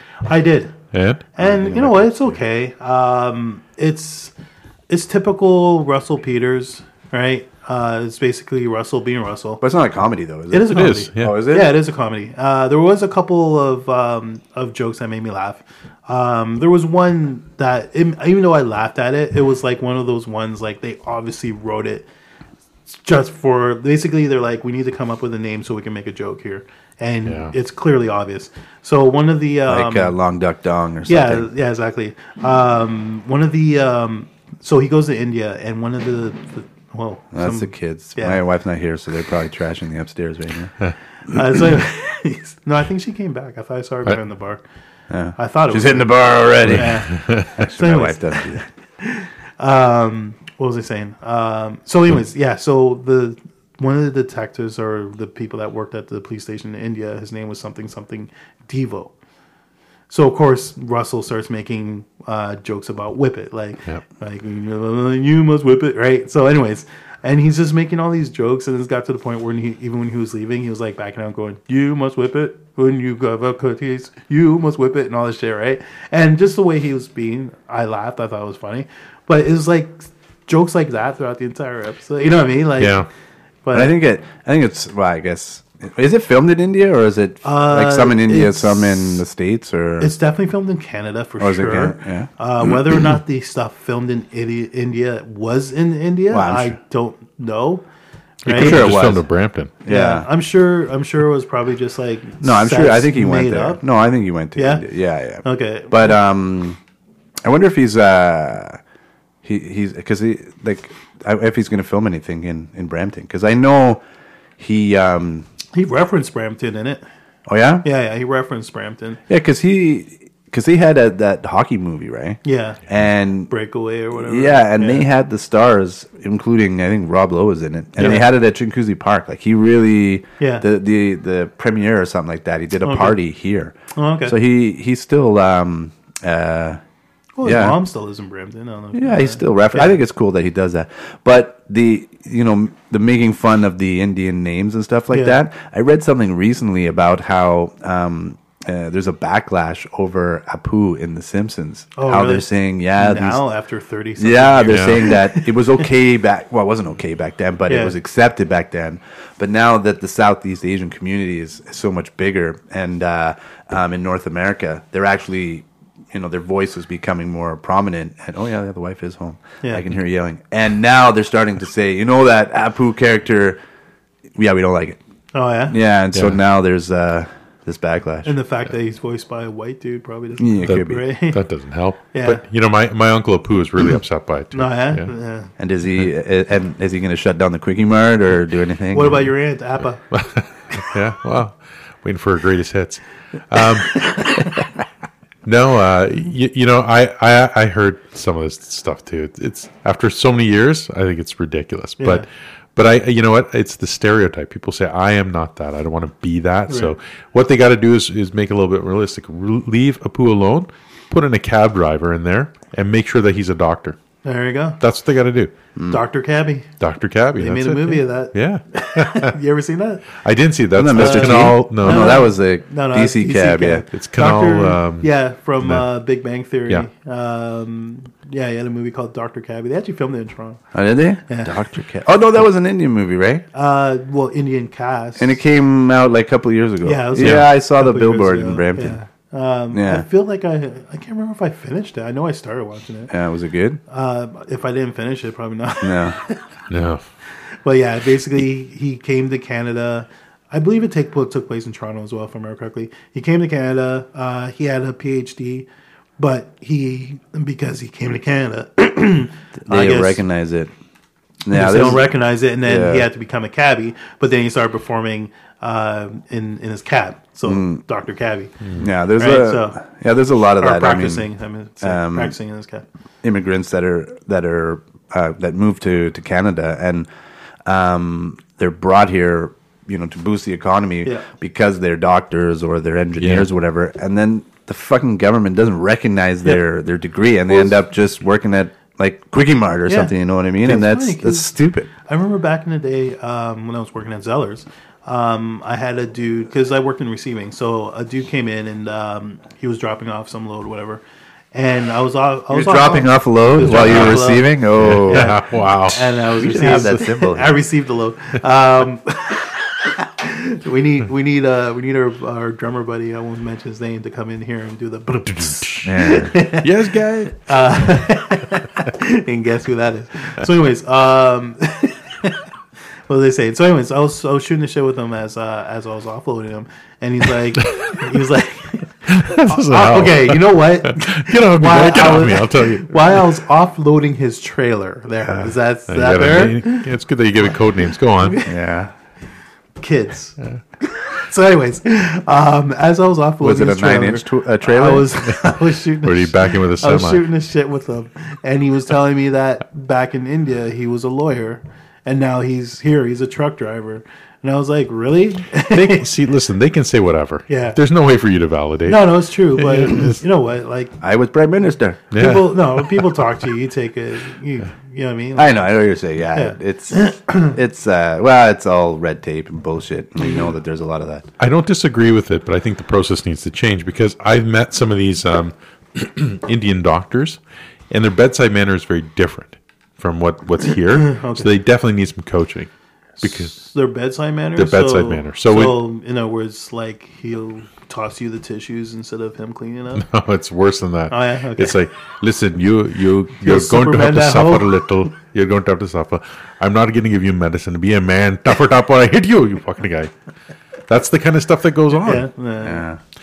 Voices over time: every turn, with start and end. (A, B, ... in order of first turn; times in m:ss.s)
0:00.2-0:00.8 A
0:00.9-0:01.3 B
0:01.4-0:04.3 A
0:01.4-0:02.4 C
0:04.9-0:09.6 A
0:09.6-0:11.8 C
0:10.5-0:22.1 A
0:10.7-0:11.4 B
0:22.9-0:30.1 A
0:27.3-0:27.5 B
0:29.7-0:31.5 C
0:31.1-0:38.4 A
0:37.3-0:40.8 C
0:41.3-0:44.6 A
0:45.1-0:48.7 C
0:45.4-0:46.1 A
0:46.7-0:47.5 B
0:46.7-0:48.4 A
0:49.0-0:59.1 A
1:00.1-1:23.0 A
1:22.8-1:23.1 B
1:23.6-1:23.9 A
1:23.7-1:30.1 C
1:27.4-1:29.2 A
1:30.0-1:37.8 A
1:31.4-1:32.7 C
1:36.3-1:36.8 C
1:38.4-1:39.7 B
1:38.5-1:38.9 A
1:38.5-1:39.3 C
1:39.8-1:40.3 C
1:39.9-1:43.8 A
1:42.4-1:46.8 C
1:44.6-1:44.8 A
1:45.4-1:46.2 A
1:47.4-1:48.8 C
1:49.4-1:54.0 C
1:54.6-1:55.5 C
1:55.7-1:57.0 A
1:57.5-1:57.9 C
1:57.8-1:59.2 A
1:59.3-2:03.5 C
2:02.4-2:02.8 A
2:03.5-2:05.1 A
2:04.2-2:16.8 C
2:08.0-2:08.3 A
2:10.4-2:10.7 A
2:12.8-2:13.2 A
2:14.0-2:14.4 A
2:17.4-2:20.0 A
2:17.4-2:17.8 C
2:18.9-2:33.4 C
2:25.1-2:25.4 A
2:32.0-2:35.9 A
2:34.2-2:53.6 C
2:34.7-2:35.0 B
2:37.7-2:38.0 A
2:54.4-2:55.0 C
2:55.3-2:55.8 A
2:55.7-2:58.4 C
2:56.1-2:56.4 B
2:58.2-3:01.4 A
3:00.4-3:01.0 C
3:00.7-3:05.1 B
3:02.1-3:02.4 A
3:04.5-3:05.5 A
3:05.6-3:09.3 C
3:08.9-3:10.0 A
3:10.1-3:14.1 B
3:14.0-3:14.4 A
3:15.4-3:34.0 B
3:22.0-3:22.3 A
3:26.7-3:26.9 A
3:34.2-3:34.8 A
3:34.8-3:35.5 B
3:35.8-3:36.0 C
3:35.9-3:36.7 A
3:36.8-3:39.4 B
3:37.4-3:40.1 A
3:40.2-3:42.2 B
3:40.7-3:43.9 C
3:40.9-3:50.6 A
3:43.9-3:45.1 B
3:45.6-3:45.9 B
3:50.7-3:53.5 C
3:53.5-3:55.4 A
3:55.2-3:59.0 C
3:56.8-4:03.1 A
3:57.2-3:57.5 B
3:59.7-4:00.1 C
4:03.1-4:03.8 C
4:03.9-4:06.4 A
4:05.8-4:06.2 C
4:06.7-4:07.0 B
4:07.6-4:15.7 A
4:16.2-4:20.2 A
4:19.6-4:20.7 C
4:21.4-4:23.1 C
4:21.5-4:28.5 A
4:27.4-4:27.8 C
4:28.6-4:28.9 B
4:28.8-4:31.3 C
4:29.2-4:29.8 A
4:30.6-4:32.8 A
4:31.8-4:32.4 C
4:33.2-4:37.1 C
4:37.6-4:51.9 C
4:43.2-4:43.5 B
4:47.5-4:47.8 A
4:49.9-4:51.5 A
4:52.1-5:01.0 A
5:01.5-5:04.5 A
5:02.5-5:05.4 C
5:03.6-5:04.2 B
5:04.8-5:07.0 B
5:05.1-5:16.7 A
5:06.4-5:07.5 C
5:15.4-5:15.9 B
5:15.8-5:16.4 C
5:16.6-5:17.5 B
5:17.4-5:22.4 A
5:23.1-5:36.9 A
5:27.6-5:28.2 B
5:29.1-5:33.4 B
5:35.9-5:38.4 B
5:38.4-5:38.9 C
5:39.8-5:56.1 A
5:43.4-5:45.1 C
5:46.0-5:47.3 B
5:55.7-6:00.2 B
5:57.5-5:57.8 A
5:58.9-6:00.9 A
6:01.0-6:02.0 C
6:02.1-6:03.2 B
6:02.2-6:05.5 A
6:05.4-6:11.3 C
6:06.4-6:07.6 A
6:11.4-6:22.7 B
6:20.9-6:21.5 A
6:23.2-6:30.0 A
6:23.2-6:23.6 B
6:24.6-6:25.8 B
6:30.0-6:40.1 B
6:31.1-6:31.8 A
6:33.4-6:34.7 A
6:40.9-6:42.3 B
6:42.1-6:42.9 A
6:42.6-6:43.0 C